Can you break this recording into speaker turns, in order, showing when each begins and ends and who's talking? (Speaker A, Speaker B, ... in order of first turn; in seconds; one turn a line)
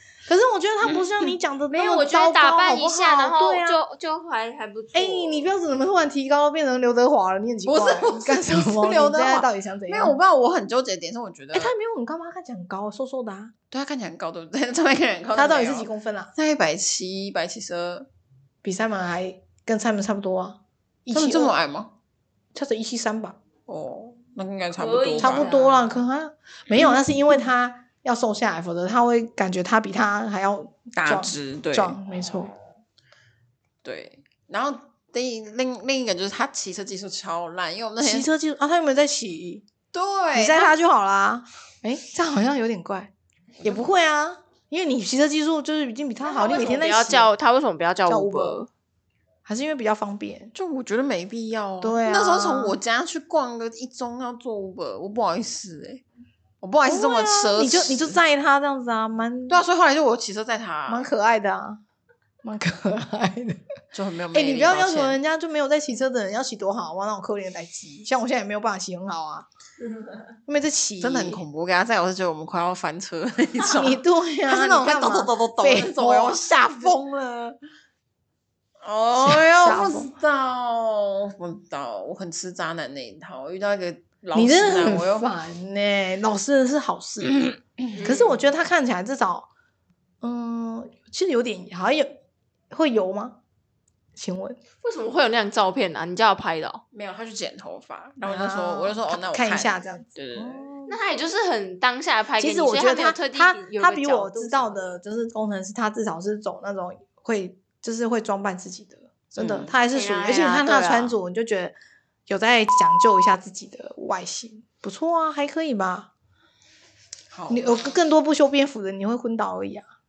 Speaker A: 0.3-3.8
Speaker B: 1.7-5.5
Speaker A: 4.9-10.2
Speaker C: 7.7-11.7
Speaker A: 11.5-13.5
Speaker C: 13.7-18.1
Speaker A: 15.3-16.3
Speaker A: 18.6-21.6
Speaker C: 21.1-21.9
Speaker A: 22.5-23.4
Speaker C: 23.7-25.5
Speaker B: 24.8-26.0
Speaker A: 25.2-32.5
Speaker C: 31.0-32.0
Speaker C: 33.8-38.3
Speaker A: 38.0-39.6
Speaker C: 39.9-40.7
Speaker A: 40.3-43.1
Speaker A: 43.6-47.3
Speaker C: 46.3-46.8
Speaker B: 46.3-48.7
Speaker A: 48.1-48.6
Speaker A: 49.5-50.5
Speaker C: 50.5-56.0
Speaker A: 51.8-52.8
Speaker C: 56.6-58.2
Speaker A: 56.9-59.6
Speaker C: 59.5-61.1
Speaker A: 60.9-61.8
Speaker A: 62.4-63.6
Speaker C: 63.9-65.2
Speaker A: 64.3-69.5
Speaker A: 70.5-71.4
Speaker C: 71.0-77.6
Speaker A: 73.7-76.4
Speaker C: 78.8-85.3
Speaker A: 79.2-80.1
Speaker A: 84.3-89.5
Speaker C: 87.8-88.2
Speaker B: 88.0-88.4
Speaker A: 90.2-92.2
Speaker A: 92.7-93.4
Speaker A: 94.2-94.6
Speaker B: 94.8-96.8
Speaker C: 96.9-100.7
Speaker A: 98.2-101.0
Speaker B: 100.9-104.9
Speaker A: 102.4-111.8
Speaker C: 109.4-109.8
Speaker B: 109.9-111.2
Speaker A: 112.3-116.1
Speaker C: 117.3-118.0
Speaker A: 117.5-119.8